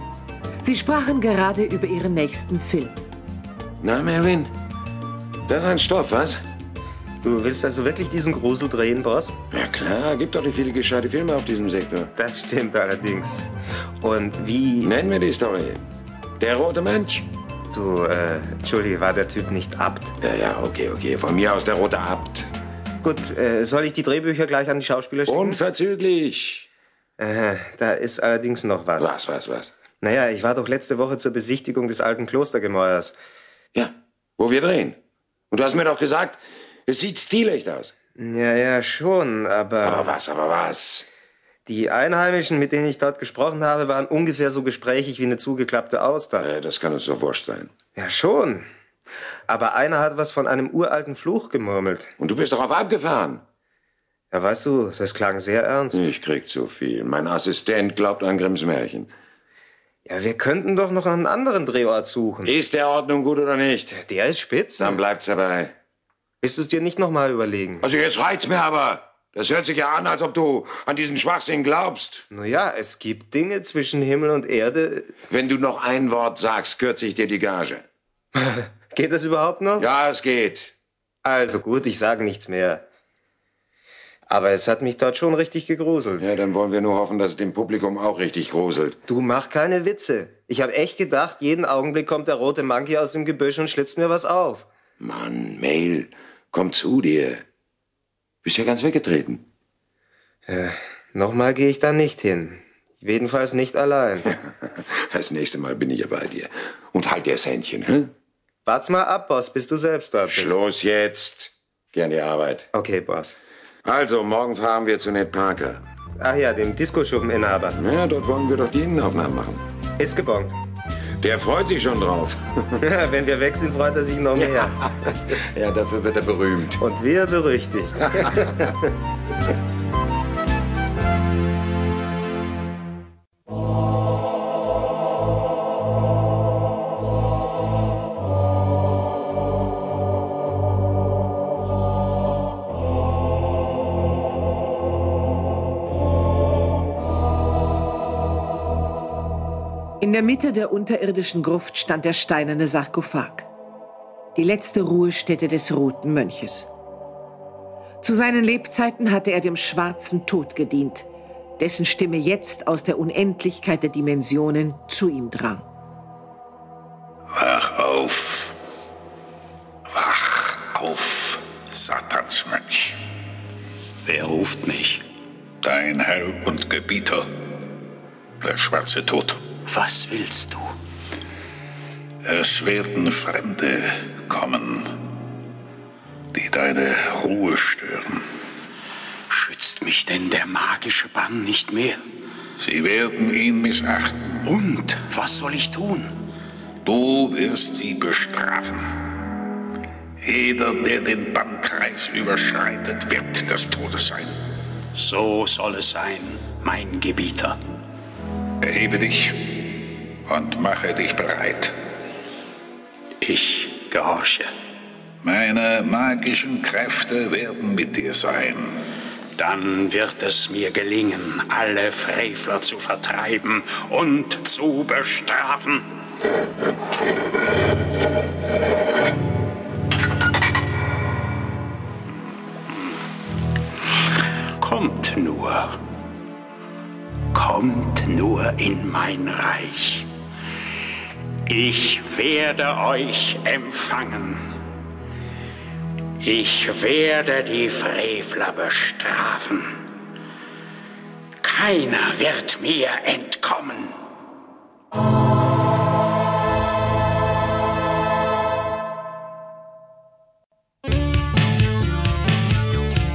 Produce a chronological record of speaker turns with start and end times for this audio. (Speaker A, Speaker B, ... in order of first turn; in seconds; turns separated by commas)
Speaker A: 0.6-3.0, Speaker B: 3.8-4.5, Speaker B: 5.5-6.4, Speaker C: 7.2-9.3, Speaker B: 9.5-12.1, Speaker C: 12.1-13.5, Speaker C: 14.0-14.9, Speaker B: 14.8-15.8, Speaker B: 16.4-17.3, Speaker C: 17.7-20.1, Speaker B: 20.2-22.5, Speaker C: 23.0-25.6, Speaker B: 25.3-26.7, Speaker C: 27.2-29.1, Speaker B: 29.0-29.7, Speaker C: 30.0-33.1, Speaker B: 33.7-35.0, Speaker B: 35.5-37.9, Speaker C: 38.1-40.2, Speaker B: 39.8-41.0, Speaker C: 41.6-46.5, Speaker B: 46.4-47.7, Speaker C: 47.9-48.6, Speaker C: 49.5-52.1, Speaker B: 52.2-53.4, Speaker C: 54.3-56.1, Speaker B: 55.9-59.1, Speaker C: 60.0-62.5, Speaker B: 62.4-63.9, Speaker C: 63.9-65.0, Speaker B: 64.8-65.7, Speaker C: 66.4-67.8, Speaker B: 67.8-72.2, Speaker C: 72.3-75.2, Speaker B: 75.3-77.8, Speaker C: 78.3-79.9, Speaker B: 79.8-80.7, Speaker C: 81.2-82.8, Speaker C: 84.3-86.3, Speaker B: 86.2-89.0, Speaker C: 89.1-94.7, Speaker B: 95.0-97.4, Speaker B: 98.4-99.4, Speaker C: 100.5-104.4, Speaker B: 104.3-108.1, Speaker C: 108.7-110.6, Speaker B: 110.3-112.7, Speaker C: 112.7-113.4, Speaker B: 113.8-115.8, Speaker C: 116.2-117.8, Speaker B: 117.8-119.6, Speaker C: 120.0-120.5, Speaker B: 121.2-122.8, Speaker C: 122.8-124.9, Speaker B: 124.3-126.8, Speaker C: 126.8-128.8, Speaker A: 150.0-153.5, Speaker A: 154.3-156.7, Speaker A: 158.0-161.1, Speaker A: 161.6-165.7, Speaker D: 167.3-168.6, Speaker D: 169.9-173.0, Speaker E: 174.1-175.0, Speaker D: 175.6-177.3, Speaker D: 178.4-179.4, Speaker E: 179.7-180.7, Speaker D: 182.2-185.0, Speaker D: 186.3-188.2, Speaker E: 189.3-192.0, Speaker D: 192.6-194.4, Speaker E: 194.4-196.2, Speaker D: 196.8-198.8, Speaker D: 200.2-204.3, Speaker E: 204.9-207.6, Speaker D: 208.6-209.7, Speaker D: 210.2-211.7, Speaker E: 213.2-214.5, Speaker D: 215.2-218.8, Speaker E: 219.4-225.9, Speaker E: 234.6-235.8, Speaker E: 237.3-240.1, Speaker E: 241.5-244.4, Speaker E: 246.2-249.9, Speaker E: 251.4-254.0